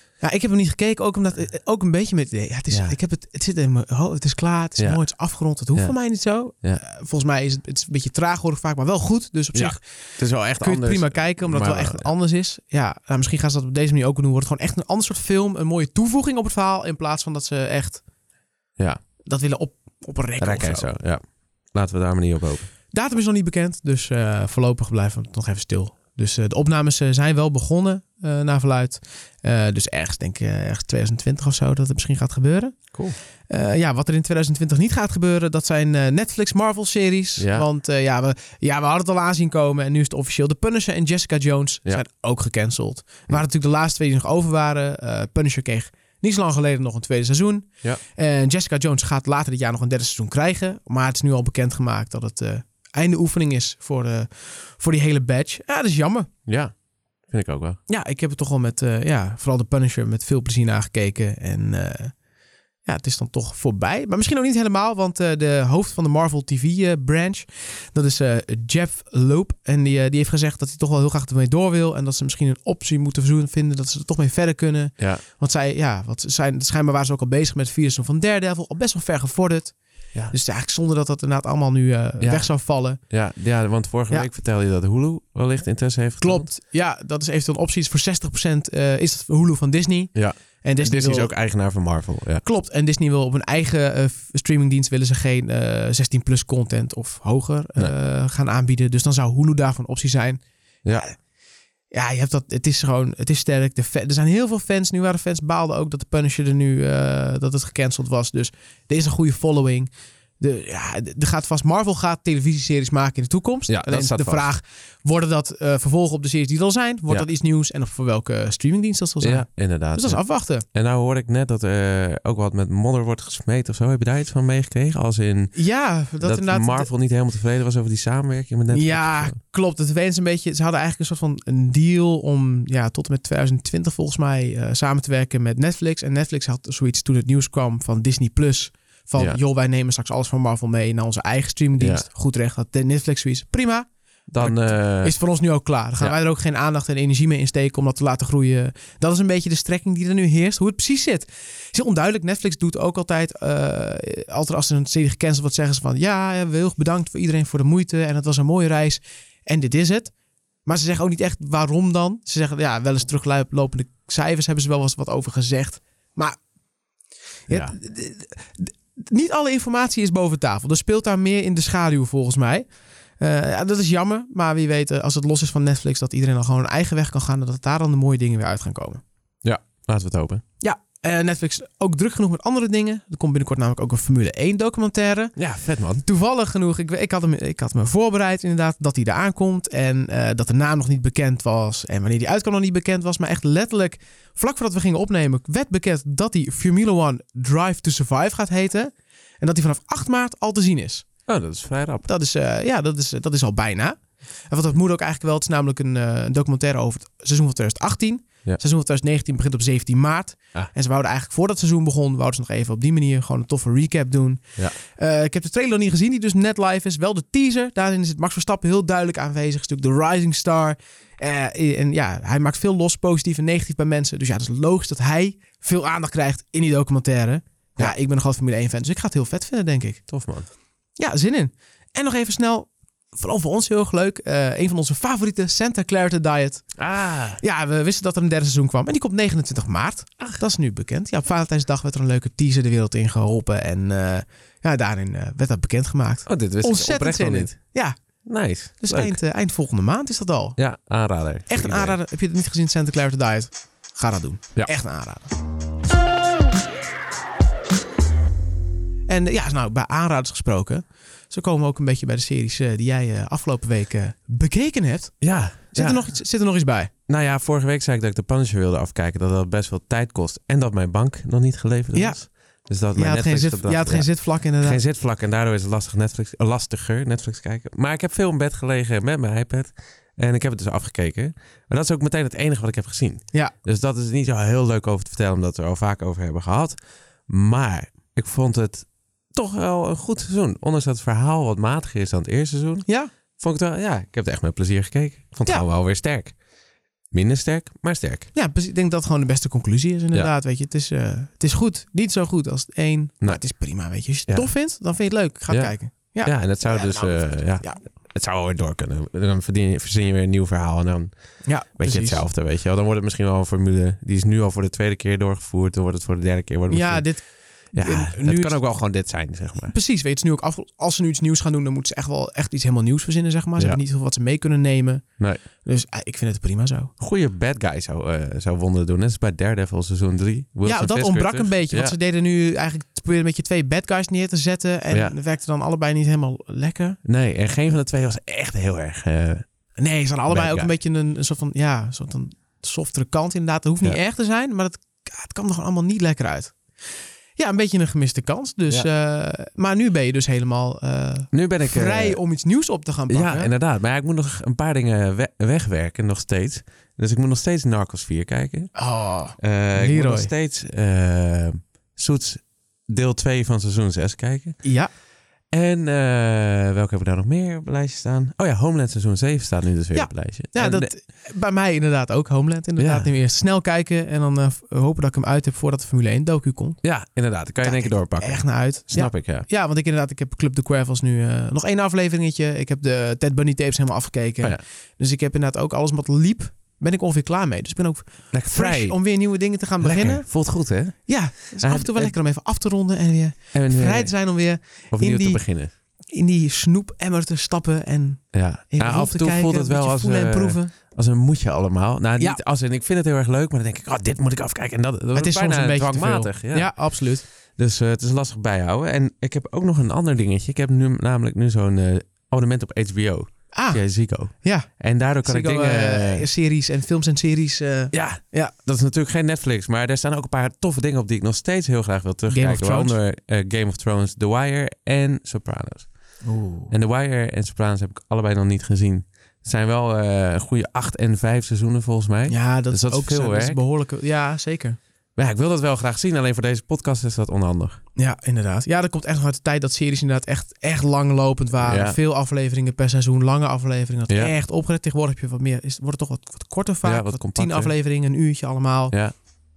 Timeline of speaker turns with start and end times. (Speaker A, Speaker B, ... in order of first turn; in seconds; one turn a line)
Speaker A: 0.2-18.0
Speaker B: 2.7-3.0
Speaker B: 6.5-6.8
Speaker B: 9.5-12.1
Speaker A: 19.2-20.9
Speaker B: 20.4-21.2
Speaker B: 21.7-22.7
Speaker A: 22.9-32.8
Speaker A: 33.5-56.3
Speaker B: 37.4-37.6
Speaker B: 56.5-56.7
Speaker B: 57.3-57.8
Speaker A: 57.9-62.1
Speaker A: 62.9-79.8
Speaker B: 75.0-75.2
Speaker A: 80.3-83.0
Speaker B: 82.2-86.5
Speaker A: 86.2-91.3
Speaker B: 90.1-92.4
Speaker A: 92.4-100.4
Speaker A: 101.9-120.7
Speaker B: 113.7-114.5
Speaker B: 119.2-125.6
Speaker A: 125.5-126.9
Speaker B: 126.2-129.4
Speaker A: 128.7-143.9
Speaker B: 141.8-142.1
Speaker B: 144.3-145.2
Speaker A: 144.4-160.1
Speaker A: 160.7-166.4
Speaker A: 167.5-172.7
Speaker B: 167.5-167.8
Speaker A: 173.2-179.0
Speaker B: 179.4-180.4
Speaker A: 180.6-185.4
Speaker B: 185.4-186.0
Speaker A: 186.0-201.1
Speaker B: 201.3-202.1
Speaker A: 202.1-230.0
Speaker B: 230.1-230.5
Speaker A: 231.0-236.7
Speaker B: 236.8-237.4
Speaker A: 237.4-247.9
Speaker B: 246.3-247.6
Speaker B: 248.3-249.2
Speaker A: 248.8-250.6
Speaker B: 250.6-252.0
Speaker A: 251.5-255.3
Speaker A: 259.1-265.2
Speaker B: 265.2-266.1
Speaker A: 265.7-266.9
Speaker B: 267.1-286.8
Speaker A: 271.9-272.2
Speaker A: 272.9-274.8
Speaker B: 287.3-292.9
Speaker A: 292.9-293.1
Speaker B: 293.4-296.4
Speaker B: 297.1-298.3
Speaker A: 298.3-307.8
Speaker B: 305.5-311.1
Speaker A: 311.4-312.2
Speaker B: 311.8-317.1
Speaker A: 316.7-317.2
Speaker B: 317.7-319.7
Speaker A: 317.8-318.6
Speaker A: 319.7-326.9
Speaker B: 327.0-331.9
Speaker A: 330.6-337.0
Speaker B: 337.1-339.4
Speaker A: 339.8-346.6
Speaker B: 340.3-340.7
Speaker A: 347.4-353.5
Speaker B: 351.3-352.2
Speaker B: 353.1-358.7
Speaker A: 358.8-360.3
Speaker B: 359.4-364.6
Speaker A: 364.6-364.9
Speaker B: 365.5-370.9
Speaker A: 369.9-376.8
Speaker B: 372.8-373.1
Speaker B: 376.8-379.5
Speaker A: 377.6-390.3
Speaker B: 388.3-389.0
Speaker B: 389.8-392.1
Speaker A: 391.1-395.4
Speaker B: 393.5-394.3
Speaker B: 394.9-395.7
Speaker A: 396.1-400.7
Speaker B: 398.3-406.9
Speaker A: 405.1-407.2
Speaker B: 407.6-416.3
Speaker A: 413.5-414.7
Speaker A: 415.2-418.5
Speaker B: 417.9-425.9
Speaker A: 422.3-423.0
Speaker A: 426.2-426.7
Speaker B: 426.7-433.6
Speaker A: 432.3-434.8
Speaker B: 435.2-437.8
Speaker A: 438.0-449.0
Speaker B: 441.6-442.0
Speaker B: 446.8-447.7